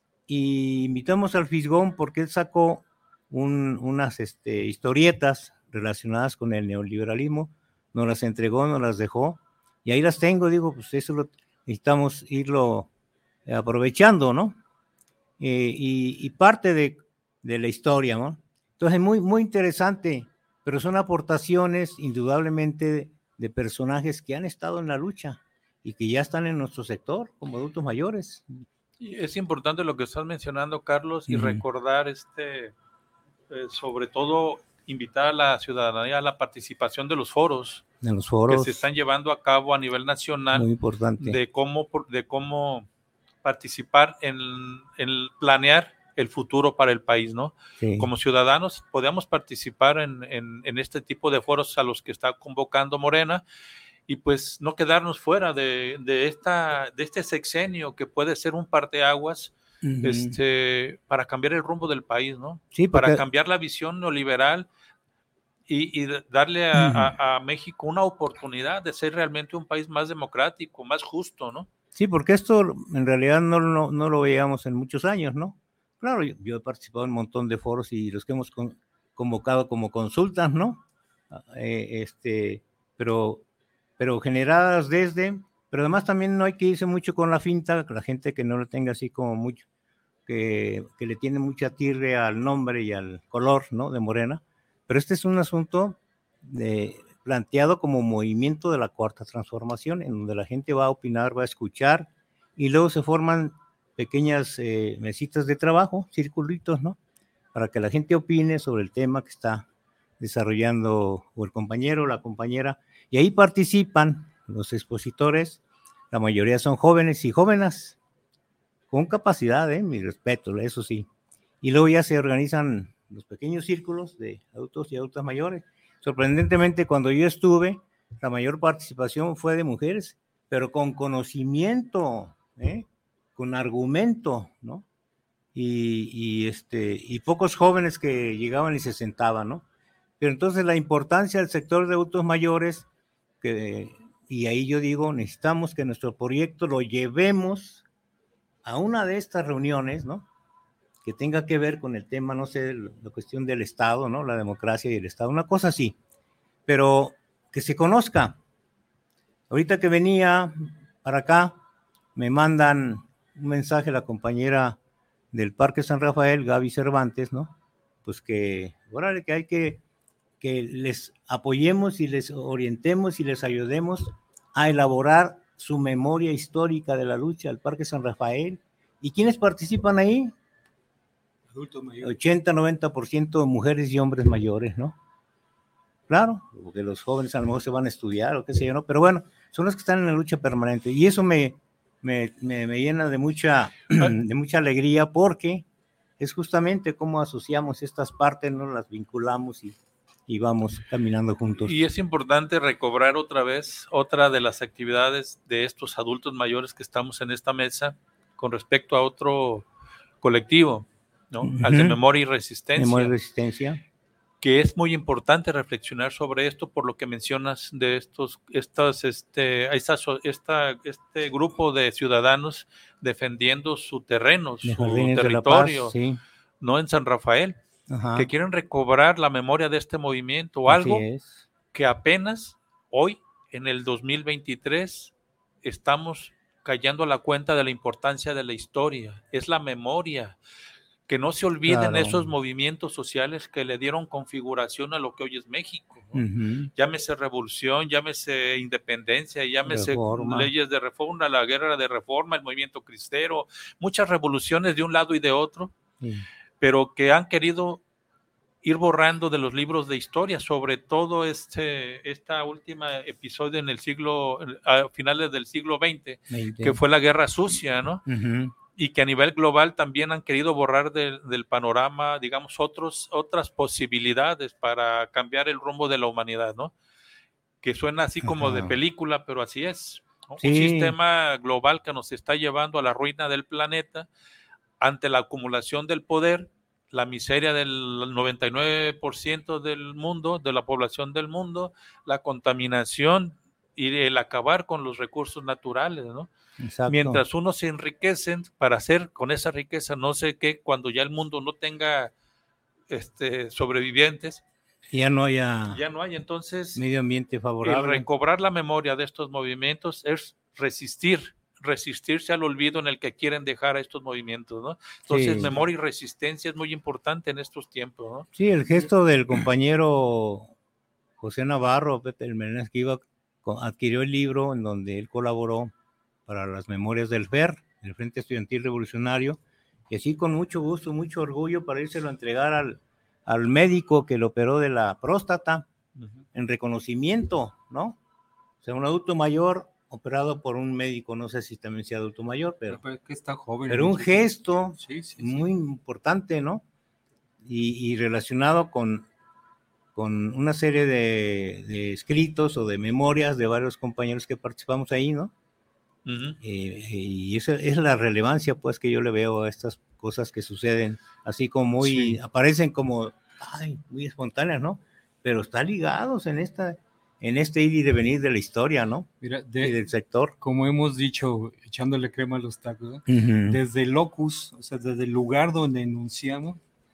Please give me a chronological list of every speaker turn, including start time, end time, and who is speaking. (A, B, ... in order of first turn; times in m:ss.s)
0:00.3-0:12.9 A
0:13.4-0:14.6 A
0:15.4-0:28.6 A
0:29.0-0:32.7 B
0:31.3-0:31.6 A
0:33.5-0:37.8 B
0:38.0-0:38.8 A
0:38.5-0:40.7 B
0:40.5-0:41.4 A
0:41.2-0:42.9 B
0:43.4-0:53.4 B
0:47.8-0:48.1 A
0:54.1-1:04.7 B
0:59.8-1:00.4 A
1:02.7-1:03.2 A
1:05.7-1:11.7 B
1:06.7-1:07.1 A
1:11.9-1:23.4 A
1:24.0-1:29.6 A
1:30.3-1:47.0 A
1:47.5-1:49.7 A
1:50.2-1:55.6 A
1:56.1-1:58.0 A
1:58.9-2:01.1 A
2:01.6-2:14.8 A
2:15.5-2:19.6 A
2:20.2-2:22.9 A
2:23.4-2:27.8 A
2:28.6-2:30.3 A
2:31.0-2:36.0 A
2:36.7-2:38.4 A
2:39.5-2:41.6 A
2:42.2-2:44.8 A
2:45.3-2:47.5 A
2:48.0-2:49.8 A
2:50.4-3:00.3 A
3:01.5-3:02.2 C
3:02.0-3:05.0 A
3:06.1-3:15.6 A
3:16.2-3:21.8 A
3:21.6-3:29.6 B
3:30.2-3:33.1 B
3:31.4-3:32.0 A
3:32.8-3:33.8 A
3:34.4-3:45.9 B
3:44.6-3:46.2 A
3:46.6-3:47.6 B
3:47.9-3:48.3 A
3:48.1-3:51.0 B
3:50.7-3:51.4 A
3:51.7-3:55.1 B
3:55.6-4:00.4 B
4:01.1-4:06.2 B
4:01.7-4:02.2 A
4:06.1-4:06.7 A
4:06.8-4:15.7 B
4:09.7-4:10.5 A
4:16.0-4:16.2 A
4:16.6-4:17.8 B
4:18.6-4:28.0 B
4:26.3-4:26.8 A
4:28.0-4:28.5 A
4:28.8-4:36.7 B
4:37.6-4:44.1 B
4:38.2-4:38.8 A
4:40.4-4:40.9 A
4:44.8-4:56.3 B
4:56.6-4:57.2 A
4:56.9-5:02.1 B
5:02.9-5:04.4 B
5:04.9-5:05.8 A
5:05.7-5:06.8 B
5:06.8-5:08.0 A
5:07.6-5:18.3 B
5:15.1-5:15.6 A
5:18.4-5:20.5 A
5:21.2-5:25.7 A
5:26.3-5:35.7 A
5:36.3-5:38.0 A
5:38.6-5:42.8 A
5:42.7-5:45.4 C
5:43.7-5:46.6 A
5:47.4-5:49.1 A
5:49.9-5:55.3 A
5:56.0-5:56.4 B
5:56.4-6:10.3 A
6:01.8-6:02.2 C
6:09.2-6:09.8 C
6:10.4-6:16.6 C
6:13.1-6:13.6 A